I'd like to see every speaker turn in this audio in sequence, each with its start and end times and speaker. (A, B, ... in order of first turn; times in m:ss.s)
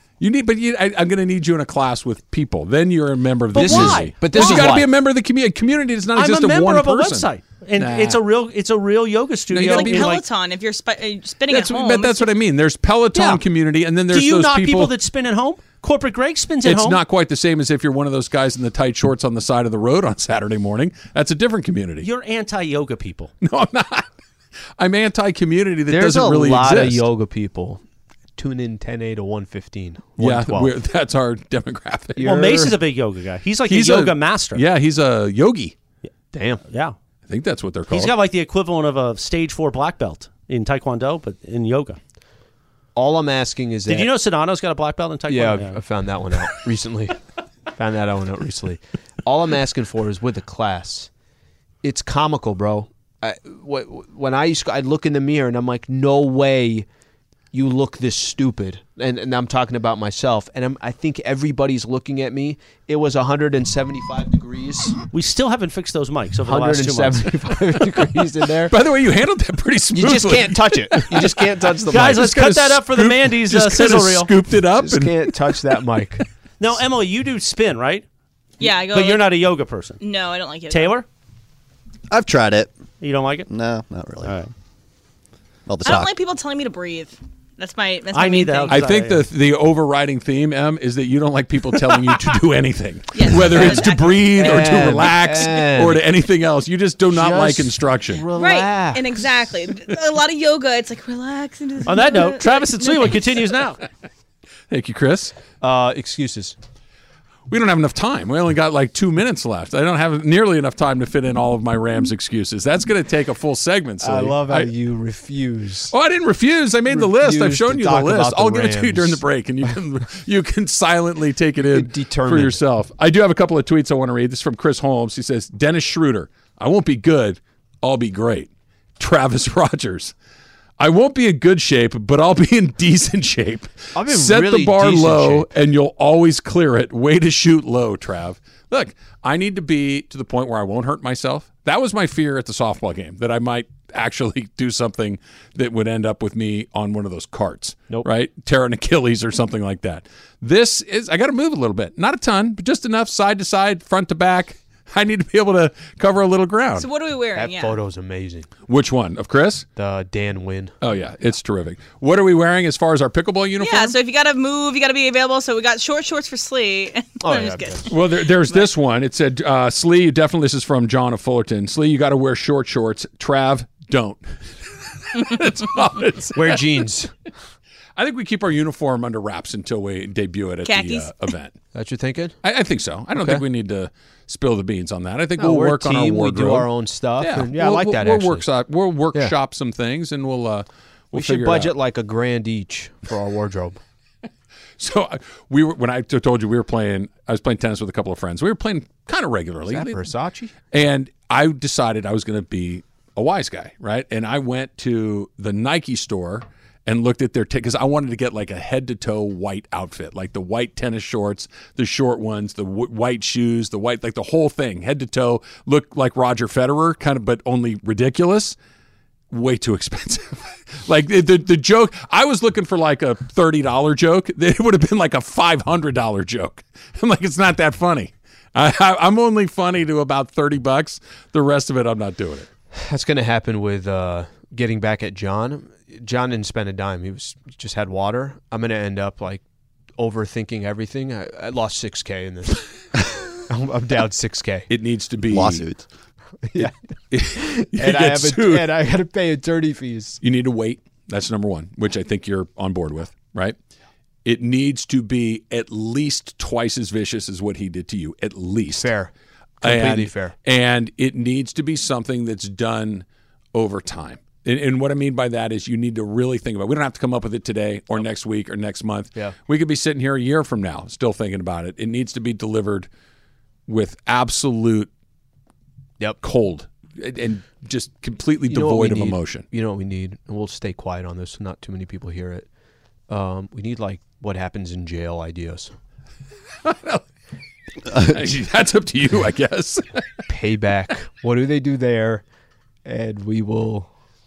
0:00.2-0:07.3 A
0:03.5-0:04.8 B
0:03.6-0:04.9 C
0:06.2-0:10.2 B
0:07.8-0:08.2 A
0:09.5-0:10.1 C
0:09.6-0:12.3 D
0:11.5-0:14.9 A
0:13.1-0:13.4 B
0:14.1-0:17.0 B
0:16.6-0:22.1 A
0:22.0-0:23.3 B
0:23.4-0:24.1 A
0:24.8-0:27.1 A
0:25.9-0:27.8 C
0:28.4-0:30.7 C
0:30.2-0:32.4 A
0:32.2-0:32.8 C
0:32.2-0:34.6 B
0:33.7-0:35.8 A
0:36.3-0:36.6 C
0:36.7-0:37.0 B
0:37.3-0:38.1 A
0:37.9-0:42.0 B
0:43.0-0:44.1 C
0:43.9-0:45.8 B
0:45.3-0:47.2 C
0:47.7-0:51.1 C
0:51.8-0:56.9 C
0:57.5-1:05.0 C
1:05.1-1:07.4 B
1:06.5-1:08.8 C
1:08.7-1:15.5 A
1:09.9-1:12.4 C
1:11.9-1:14.3 B
1:14.7-1:16.2 C
1:16.6-1:18.0 B
1:18.6-1:19.3 D
1:18.9-1:20.0 B
1:20.0-1:21.0 D
1:20.7-1:21.1 B
1:22.1-1:22.7 E
1:23.0-1:23.5 B
1:23.5-1:24.3 E
1:24.2-1:24.5 B
1:25.7-1:26.1 E
1:25.8-1:28.8 D
1:28.1-1:29.2 B
1:28.7-1:38.2 A
1:33.1-1:34.7 D
1:33.3-1:36.0 C
1:37.1-1:39.2 C
1:38.4-1:43.4 D
1:41.9-1:43.8 B
1:44.7-1:45.4 A
1:45.6-1:46.6 C
1:47.5-1:54.7 A
1:54.0-1:55.9 C
1:55.9-2:10.1 A
1:56.9-1:59.2 C
2:01.7-2:02.6 C
2:10.8-2:36.9 A
2:14.0-2:15.5 C
2:36.8-2:37.8 D
2:37.4-2:38.5 C
2:38.7-2:39.7 A
2:39.8-2:40.7 C
2:40.8-2:44.0 A
2:43.6-2:48.0 D
2:47.2-2:47.8 C
2:47.9-2:54.4 A
2:55.0-2:56.6 A
2:56.3-2:57.1 C
2:58.0-3:01.6 A
3:00.6-3:01.1 D
3:01.7-3:02.4 C
3:02.4-3:06.7 A
3:03.2-3:03.4 C
3:05.4-3:08.4 C
3:07.2-3:11.7 A
3:11.1-3:13.8 C
3:14.8-3:20.0 A
3:19.7-3:20.5 C
3:20.7-3:38.6 A
3:39.3-3:52.5 A
3:52.7-3:59.4 C
4:00.0-4:02.7 C
4:03.4-4:04.7 C
4:04.7-4:05.7 A
4:05.3-4:05.8 E
4:06.4-4:06.7 C
4:06.6-4:08.7 A
4:07.4-4:10.2 C
4:10.2-4:13.6 A
4:14.2-4:18.9 A
4:18.7-4:20.4 C
4:19.6-4:32.9 A
4:33.7-4:34.9 A
4:36.2-4:39.4 A
4:38.5-4:42.5 C
4:43.1-4:45.7 C
4:46.6-4:47.0 A
4:47.9-4:50.0 A
4:50.3-4:52.2 C
4:52.8-4:53.9 C